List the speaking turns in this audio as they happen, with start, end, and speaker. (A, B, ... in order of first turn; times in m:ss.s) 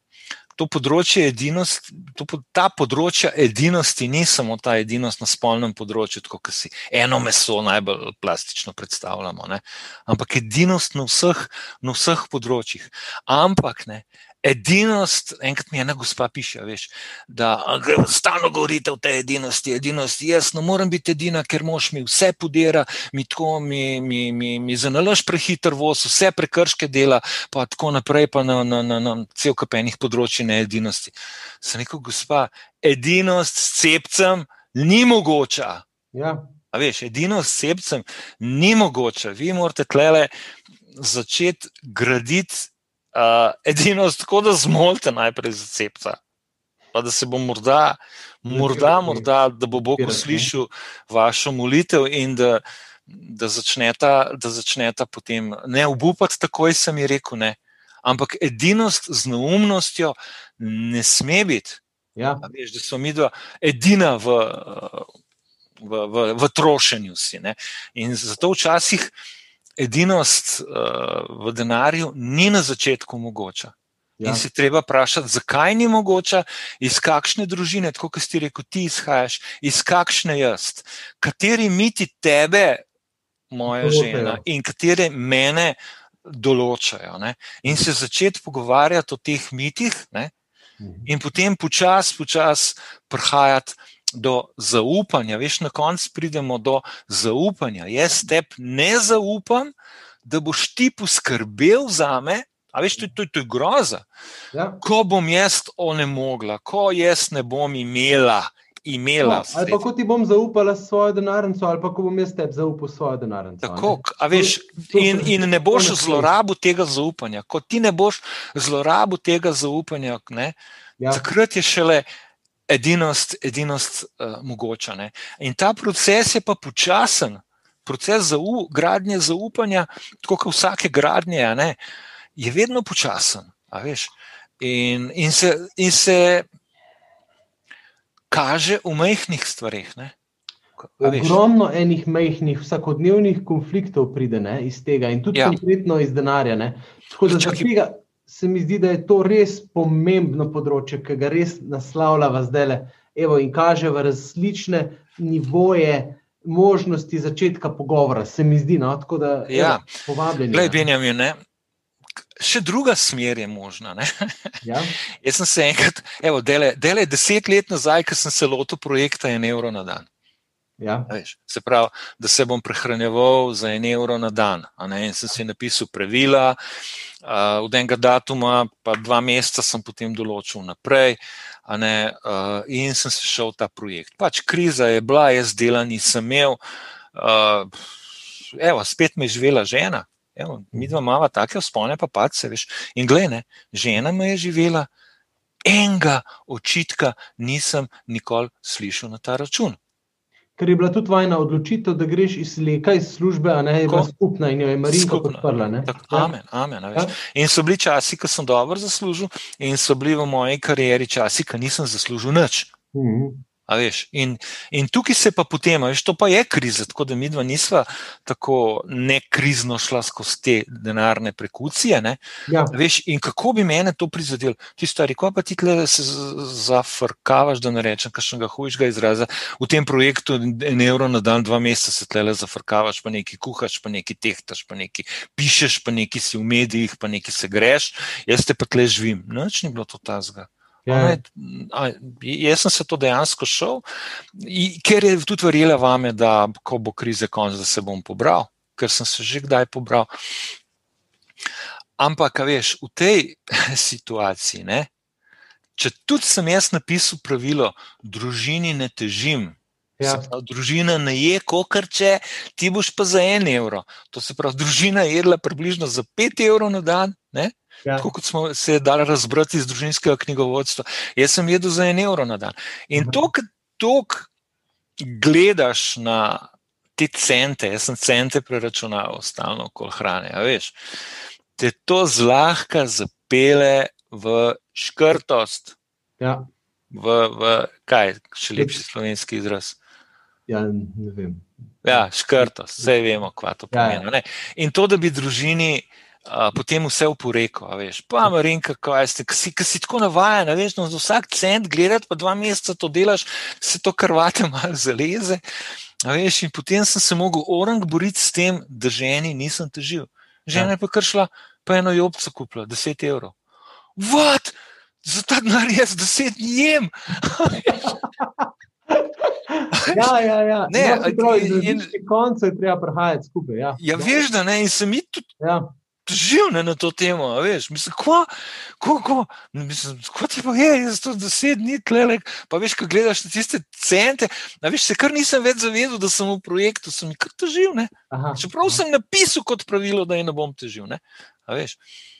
0:00.6-0:35.8 A
0:36.1-0:36.5 B
0:36.7-0:40.3 A
0:40.9-0:46.2 A
0:46.9-1:01.8 A
0:48.5-0:49.3 B
0:49.9-0:50.5 B
1:02.2-1:02.4 B
1:02.4-1:05.1 A
1:05.8-1:09.1 A
1:09.8-1:22.8 A
1:14.2-1:14.4 B
1:23.5-1:30.3 A
1:23.7-1:24.4 B
1:30.8-1:31.1 B
1:31.1-1:39.7 A
1:40.2-1:44.0 A
1:44.5-1:44.8 B
1:44.8-1:49.8 A
1:49.2-1:56.3 B
1:53.6-2:00.6 A
2:01.1-2:02.0 A
2:02.7-2:11.8 A
2:12.4-2:16.5 A
2:18.3-2:20.1 A
2:20.8-2:21.4 A
2:21.0-2:40.8 B
2:27.2-2:27.7 A
2:39.5-2:40.0 A
2:40.5-2:41.4 A
2:42.4-2:44.6 A
2:44.6-2:44.9 B
2:45.2-2:50.1 A
2:50.8-2:51.1 B
2:51.1-2:56.6 A
2:57.2-3:06.6 A
3:07.1-3:14.9 A
3:15.6-3:19.8 A
3:20.6-3:26.3 B
3:24.8-3:32.7 A
3:32.9-3:33.4 B
3:33.7-3:42.2 A
3:42.5-3:42.7 B
3:42.7-4:03.8 A
4:00.8-4:01.2 B
4:04.3-4:10.1 A
4:12.0-4:14.9 A
4:15.8-4:34.3 A
4:20.0-4:20.3 B
4:33.0-4:33.2 B
4:35.0-4:36.4 A
4:37.0-4:41.0 A
4:41.6-4:45.8 A
4:46.2-4:46.5 B
4:46.9-4:49.8 A
4:50.5-4:52.9 B
4:51.8-5:05.4 A
4:53.7-4:54.0 B
5:06.0-5:13.3 A
5:14.0-5:17.9 A
5:17.8-5:24.2 B
5:19.7-5:20.1 A
5:20.7-5:21.9 A
5:23.8-5:25.3 A
5:25.4-5:25.7 B
5:26.0-5:41.8 A
5:38.1-5:38.8 B